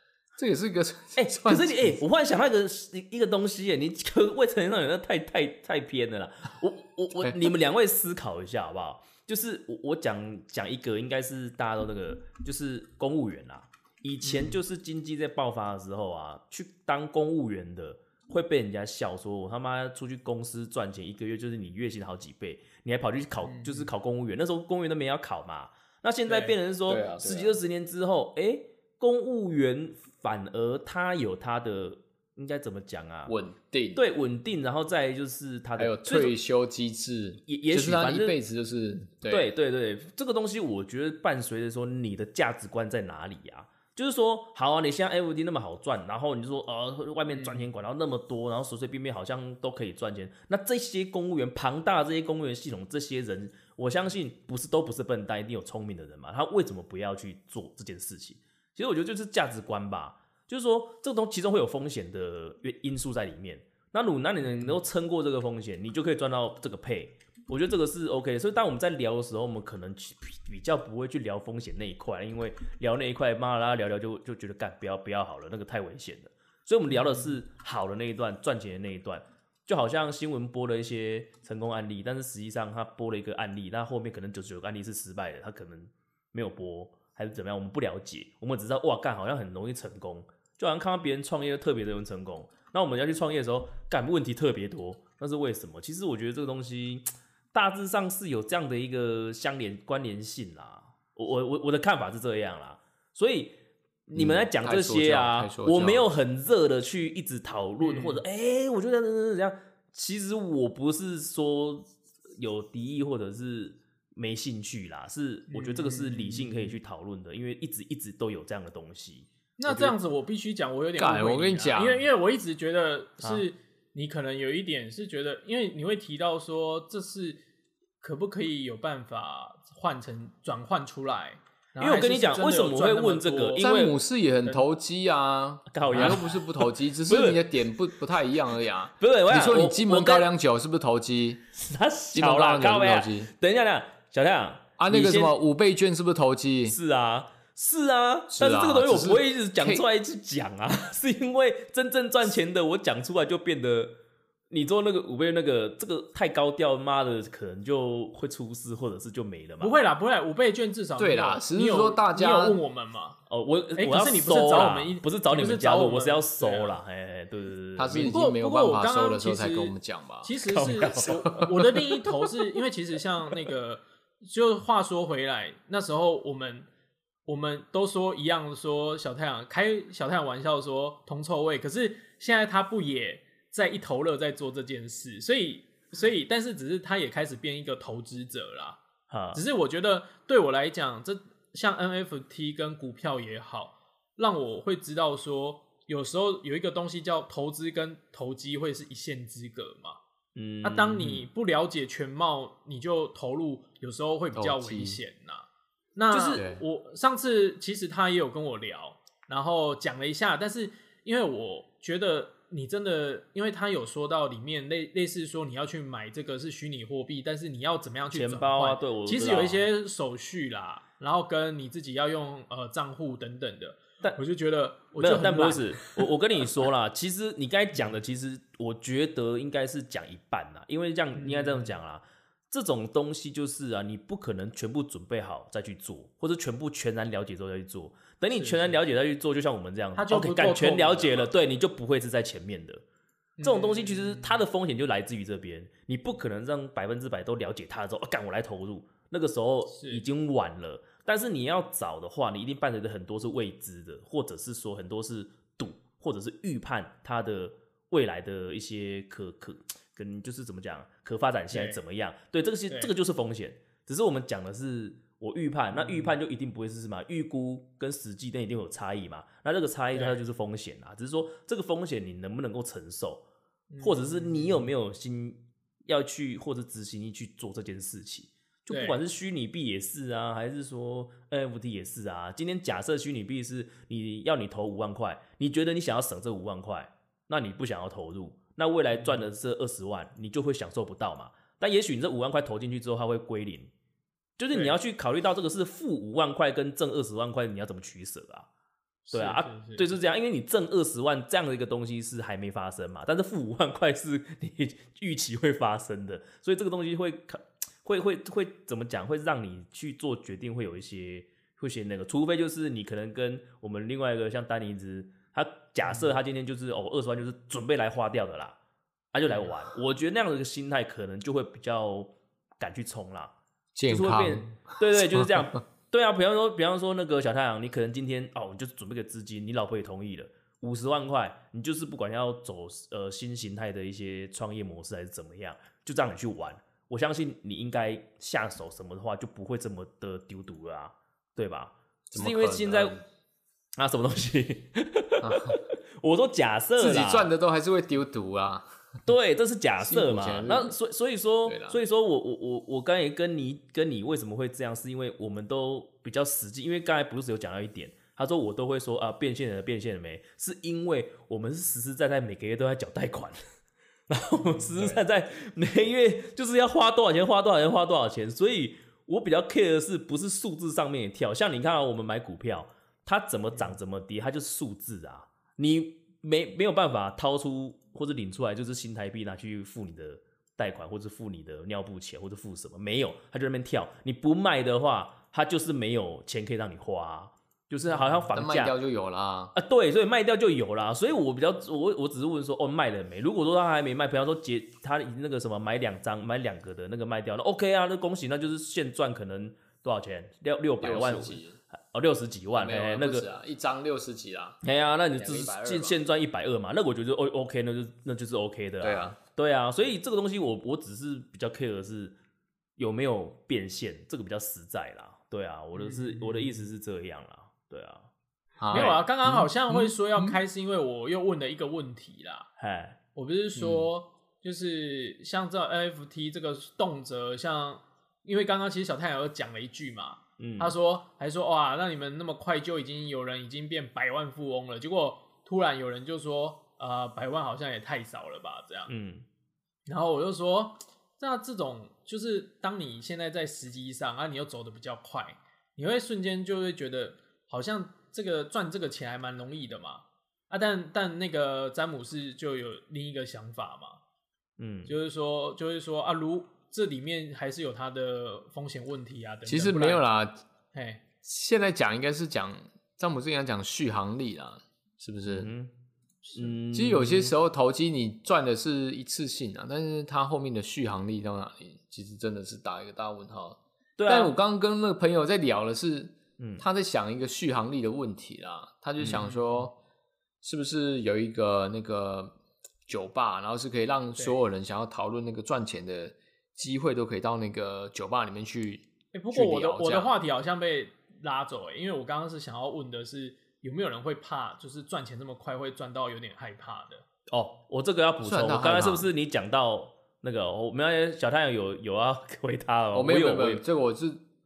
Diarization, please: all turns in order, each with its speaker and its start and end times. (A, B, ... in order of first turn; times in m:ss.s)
0:00.4-0:02.0 A
0:01.2-0:33.3 B
0:14.3-0:14.6 C
0:23.4-0:23.9 C
0:26.3-0:26.6 C
0:26.9-0:27.6 A
0:33.3-0:34.0 A
0:34.0-0:36.4 B
0:35.8-0:39.5 A
0:37.5-0:38.4 B
0:39.3-1:43.6 B
0:47.3-0:47.7 C
1:04.4-1:04.8 C
1:16.9-1:17.4 C
1:44.1-1:59.3 B
1:44.2-1:46.1 A
1:47.8-1:48.2 C
1:55.5-1:56.7 C
1:59.6-2:07.4 C
1:59.7-2:00.0 A
2:01.0-2:02.0 A
2:08.0-2:13.6 C
2:11.8-2:14.0 B
2:13.6-2:21.4 A
2:15.7-2:17.4 B
2:15.9-2:16.2 C
2:19.0-2:20.3 B
2:21.6-2:25.4 B
2:22.1-2:23.3 A
2:24.8-2:26.8 A
2:26.7-2:33.9 B
2:28.3-2:29.8 A
2:34.5-2:39.8 B
2:39.6-2:43.2 C
2:41.0-2:42.6 A
2:43.3-2:48.2 B
2:43.8-2:46.8 C
2:47.8-2:51.5 A
2:47.9-2:56.7 C
2:50.4-2:51.2 B
2:57.3-3:08.8 C
3:09.1-3:09.4 B
3:09.3-3:20.0 C
3:20.4-3:21.3 B
3:20.6-3:46.1 C
3:24.3-3:25.0 A
3:26.1-3:26.4 B
3:26.3-3:26.6 A
3:38.1-3:39.6 B
3:45.0-4:02.8 B
3:51.2-3:51.7 C
3:58.4-3:58.8 C
4:00.0-4:01.3 C
4:03.4-4:04.4 C
4:03.4-4:33.2 B
4:09.7-4:10.0 C
4:21.5-4:21.8 C
4:25.7-4:26.2 C
4:29.9-4:30.2 C
4:33.7-4:34.7 C
4:33.8-4:53.7 B
4:38.7-4:39.0 C
4:48.9-4:49.3 C
4:54.4-4:58.5 B
4:59.1-4:59.9 C
4:59.1-5:18.6 B
5:19.1-5:23.3 B
5:23.8-5:25.3 A
5:23.9-5:43.0 B
5:42.1-5:43.0 A
5:43.8-5:47.3 B
5:45.2-5:45.6 A
5:46.8-5:48.7 A
5:49.1-6:03.4 B
5:49.8-5:50.7 A
5:51.5-5:51.8 A
6:04.1-6:28.7 B
6:04.3-6:05.0 C
6:27.9-6:28.3 C
6:28.3-6:29.5 A
6:29.5-6:43.3 B
6:40.8-6:41.6 A
6:42.6-6:44.6 A
6:44.6-6:52.2 B
6:45.2-6:46.0 A
6:48.8-6:49.2 A
6:52.8-6:58.1 B
6:55.8-6:56.6 C
6:58.6-7:00.4 A
6:58.7-6:59.0 B
6:58.7-7:02.5 C
7:02.6-7:03.0 B
7:03.2-7:18.9 C
7:03.6-7:03.9 A
7:10.4-7:10.8 B
7:18.9-7:19.3 B
7:19.9-7:34.0 C
7:34.6-7:34.9 B
7:34.9-7:40.0 C
7:39.5-7:40.4 A
7:40.7-7:41.0 C
7:41.2-7:45.5 A
7:45.3-7:45.7 B
7:46.4-7:47.3 B
7:46.7-7:59.8 A
7:54.0-7:54.3 B
7:59.0-7:59.3 B
7:59.1-7:59.7 C
8:00.4-8:02.3 A
8:02.9-8:10.1 A
8:09.1-8:17.0 C
8:17.3-8:23.6 B
8:18.2-8:19.1 A
8:22.9-8:24.2 A